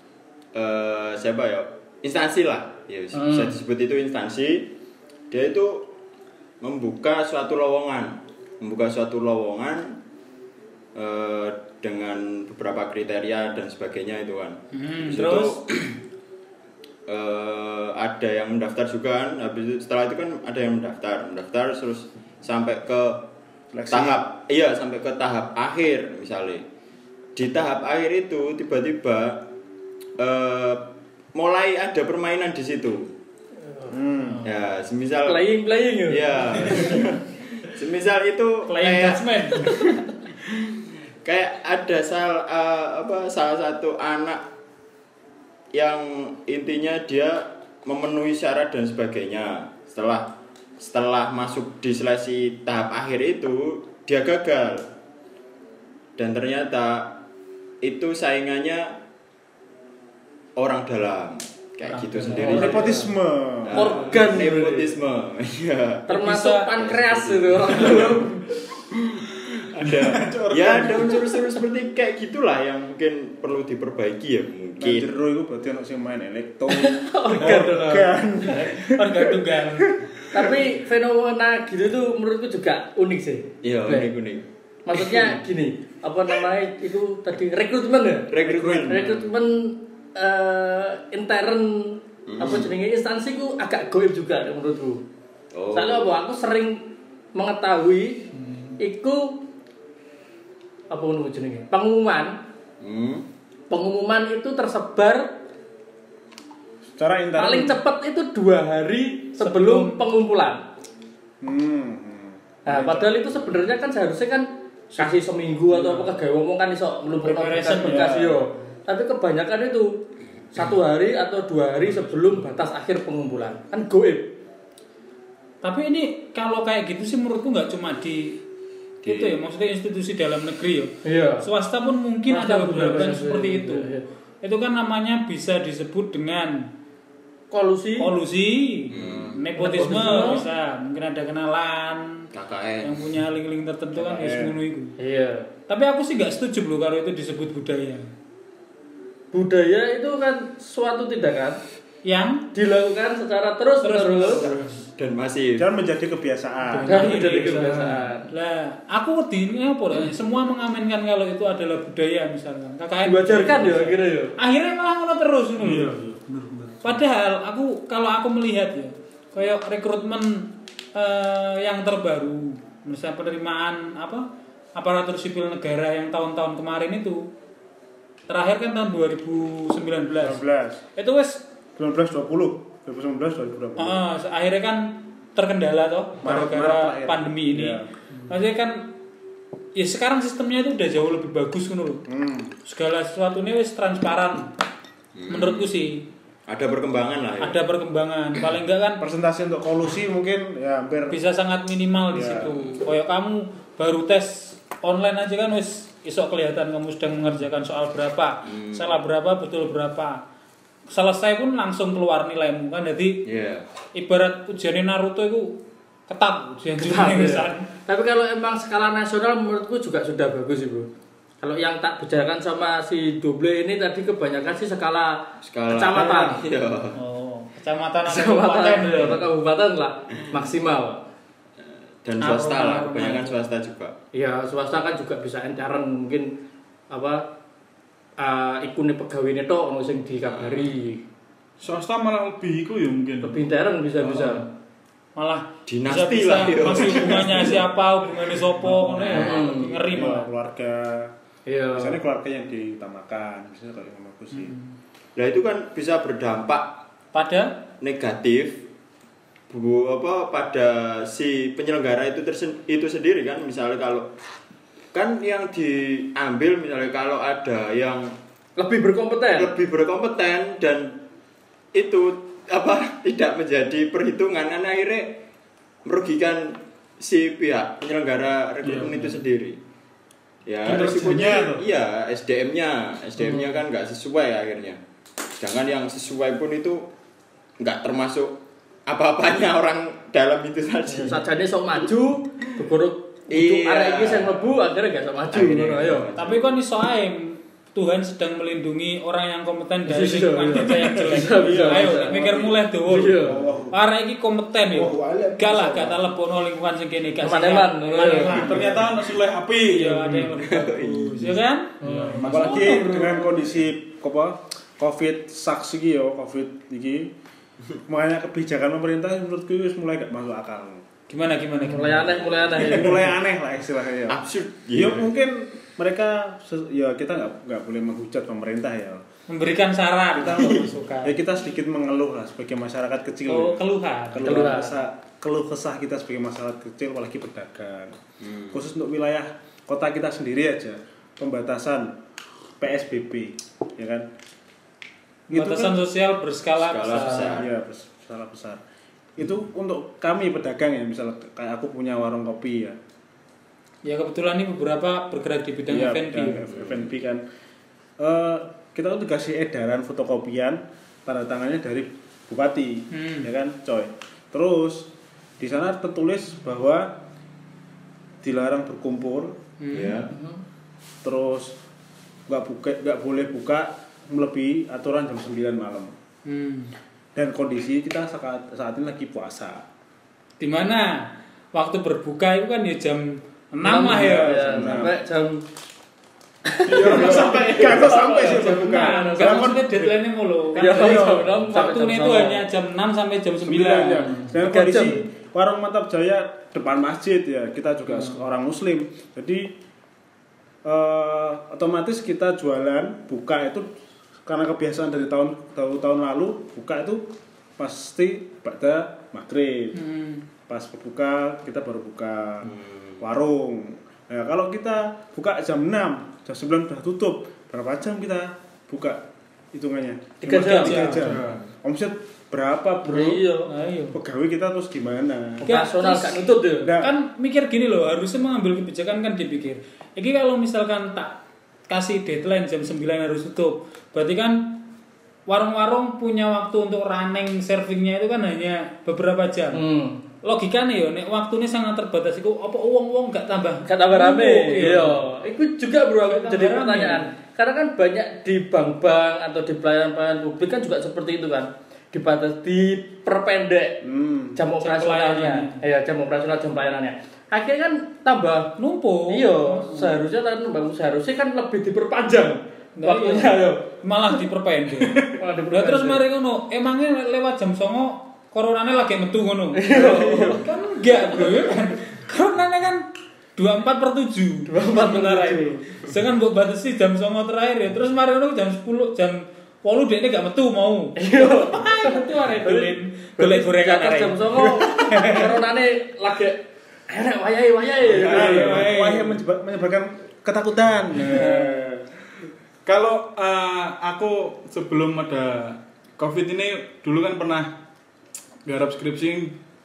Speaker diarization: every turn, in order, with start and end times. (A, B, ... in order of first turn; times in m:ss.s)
0:00.5-0:04.7 A
0:03.1-0:03.6 B
0:05.3-0:05.9 A
0:06.6-0:10.0 A
0:11.0-0:16.0 A
0:14.7-0:15.6 C
0:17.1-0:23.2 A
0:23.7-0:24.2 D
0:23.9-0:26.6 A
0:27.4-0:29.4 A
0:30.2-0:33.1 A
0:33.9-0:34.5 D
0:34.4-0:35.4 A
0:35.3-0:36.9 B
0:36.1-0:44.4 A
0:38.7-0:39.7 C
0:45.7-0:50.3 A
0:50.8-0:54.9 A
0:56.2-0:57.2 A
0:57.8-0:59.0 A
1:00.6-1:03.0 A
1:01.8-1:03.1 C
1:02.4-1:02.9 B
1:02.4-1:04.2 D
1:03.6-1:06.1 A
1:03.7-1:05.0 B
1:06.1-1:08.5 B
1:06.1-1:06.7 C
1:06.7-1:08.4 A
1:08.9-1:15.1 A
1:09.8-1:11.4 E
1:14.8-1:20.5 D
1:16.7-1:18.0 B
1:17.4-1:18.1 E
1:18.6-1:20.0 C
1:20.3-1:24.1 B
1:23.6-1:24.4 A
1:24.9-1:35.0 B
1:28.3-1:29.3 A
1:28.4-1:29.0 D
1:32.3-1:32.7 A
1:35.5-1:36.1 A
1:35.7-1:39.4 B
1:40.9-1:42.4 B
1:42.8-1:43.2 A
1:43.7-1:45.3 B
1:47.0-1:47.8 D
1:47.4-1:50.6 B
1:49.4-1:50.0 C
1:51.4-1:53.2 D
1:52.7-1:59.9 B
1:57.2-1:58.2 C
1:57.8-1:58.4 D
2:00.5-2:04.3 B
2:05.6-2:08.4 C
2:09.0-2:16.7 C
2:09.1-2:09.4 A
2:11.0-2:11.5 B
2:12.3-2:14.0 B
2:17.5-2:18.1 B
2:18.0-2:22.3 C
2:18.9-2:19.4 A
2:19.6-2:20.4 B
2:22.3-2:23.1 A
2:22.8-2:25.0 C
2:24.0-2:24.6 D
2:25.0-2:25.5 B
2:25.7-2:28.1 C
2:29.3-2:31.6 B
2:32.0-2:32.5 C
2:32.5-2:34.5 B
2:33.8-2:34.9 C
2:35.0-2:35.7 A
2:35.6-2:37.0 D
2:36.7-2:37.7 C
2:36.9-2:38.3 B
2:37.0-2:38.1 E
2:38.3-2:46.0 C
2:43.0-2:44.3 B
2:45.6-2:47.0 E
2:46.8-2:54.2 C
2:54.8-2:57.3 C
2:58.3-3:00.4 C
3:00.2-3:00.8 D
3:01.0-3:01.4 C
3:01.8-3:04.0 D
3:03.8-3:08.9 C
3:06.2-3:07.9 D
3:09.8-3:12.0 C
3:12.1-3:12.5 D
3:12.6-3:14.5 C
3:15.2-3:15.9 A
3:15.3-3:16.0 C
3:16.5-3:17.6 A
3:17.4-3:19.0 C
3:19.0-3:21.2 D
3:21.1-3:30.2 C
3:22.1-3:22.8 D
3:28.4-3:29.0 A
3:30.9-3:33.2 C
3:33.2-3:33.7 A
3:33.9-3:37.7 C
3:36.8-3:40.9 B
3:41.4-3:46.4 B
3:45.4-3:47.0 A
3:47.0-3:49.3 C
3:48.0-3:51.0 B
3:52.0-3:54.0 A
3:52.2-3:53.4 C
3:54.1-3:56.4 B
3:56.9-3:57.3 B
3:58.2-4:01.0 B
4:00.3-4:00.7 A
4:01.6-4:03.4 E
4:03.2-4:04.5 B
4:04.0-4:04.5 E
4:05.2-4:10.3 C
4:05.7-4:07.6 A
4:08.6-4:11.1 D
4:09.1-4:10.0 B
4:11.5-4:12.0 B
4:11.7-4:14.5 D
4:14.3-4:14.7 C
4:15.2-4:16.7 A
4:17.1-4:17.5 C
4:17.8-4:18.6 A
4:19.5-4:24.1 A
4:24.9-4:28.1 A
4:28.6-4:29.5 B
4:29.4-4:31.0 A
4:31.7-4:35.2 A
4:35.8-4:39.6 A
4:38.6-4:39.2 E
4:40.5-4:44.8 A
4:40.6-4:41.6 E
4:43.2-4:43.5 B
4:45.4-4:46.9 A
4:47.6-4:51.3 A
4:50.9-4:56.1 B
4:53.3-4:54.6 A
4:55.3-4:56.5 A
4:56.2-5:08.8 C
4:59.9-5:02.2 B
5:01.5-5:01.8 E
5:01.8-5:02.6 D
5:02.8-5:03.4 B
5:03.2-5:03.8 D
5:04.7-5:06.0 D
5:07.2-5:08.7 B
5:08.2-5:10.4 E
5:08.5-5:08.8 D
5:09.7-5:11.8 C
5:10.4-5:11.4 A
5:11.8-5:13.3 B
5:11.8-5:12.8 E
5:12.3-5:17.1 D
5:17.9-5:20.8 D
5:21.1-5:22.2 C
5:21.6-5:23.1 B
5:22.6-5:24.2 D
5:24.1-5:25.1 A
5:24.7-5:29.0 D
5:29.3-5:31.2 C
5:30.1-5:38.0 D
5:33.3-5:34.8 C
5:34.2-5:34.7 B
5:38.2-5:38.6 A
5:38.5-5:41.9 D
5:42.6-5:44.1 D
5:45.3-5:47.4 C
5:45.3-5:45.8 D
5:46.6-5:47.5 A
5:47.0-5:48.6 D
5:49.2-5:52.8 D
5:53.8-5:56.4 C
5:55.7-5:57.2 D
5:58.0-6:07.0 D
6:02.9-6:03.3 C
6:08.2-6:09.4 D
6:09.6-6:10.1 C
6:09.7-6:10.1 A
6:10.1-6:10.4 B
6:11.0-6:11.6 D
6:12.3-6:16.0 D
6:16.3-6:16.7 C
6:17.2-6:19.6 D
6:20.4-6:24.6 C
6:23.6-6:25.4 B
6:23.8-6:25.0 D
6:26.4-6:29.5 B
6:26.7-6:29.9 D
6:26.7-6:27.1 E
6:28.2-6:34.3 C
6:30.6-6:32.5 B
6:30.7-6:31.2 D
6:33.4-6:39.5 D
6:34.3-6:35.0 B
6:40.6-6:43.7 D
6:44.2-6:47.1 D
6:47.6-6:49.8 D
6:49.7-6:50.3 C
6:50.5-7:03.2 D
6:52.4-6:53.0 A
7:00.3-7:01.0 B
7:00.3-7:01.2 C
7:01.0-7:01.4 E
7:02.9-7:03.5 B
7:03.5-7:04.0 C
7:03.9-7:05.5 D
7:05.4-7:06.2 C
7:05.5-7:06.7 B
7:06.6-7:06.9 D
7:06.8-7:14.6 C
7:15.3-7:19.6 C
7:19.5-7:20.0 B
7:20.2-7:25.0 C
7:23.7-7:33.8 B
7:26.0-7:27.1 C
7:33.8-7:34.4 D
7:34.4-7:38.6 B
7:34.6-7:35.6 C
7:38.6-7:40.0 C
7:39.1-7:43.7 B
7:42.8-8:04.2 C
7:45.2-7:46.0 B
7:49.6-7:50.4 B
7:49.8-7:50.3 D
7:54.5-7:55.6 B
8:01.0-8:08.7 B
8:04.9-8:05.2 C
8:07.9-8:11.9 D
8:07.9-8:09.2 E
8:11.1-8:11.7 C
8:12.6-8:17.5 E
8:18.4-8:19.4 E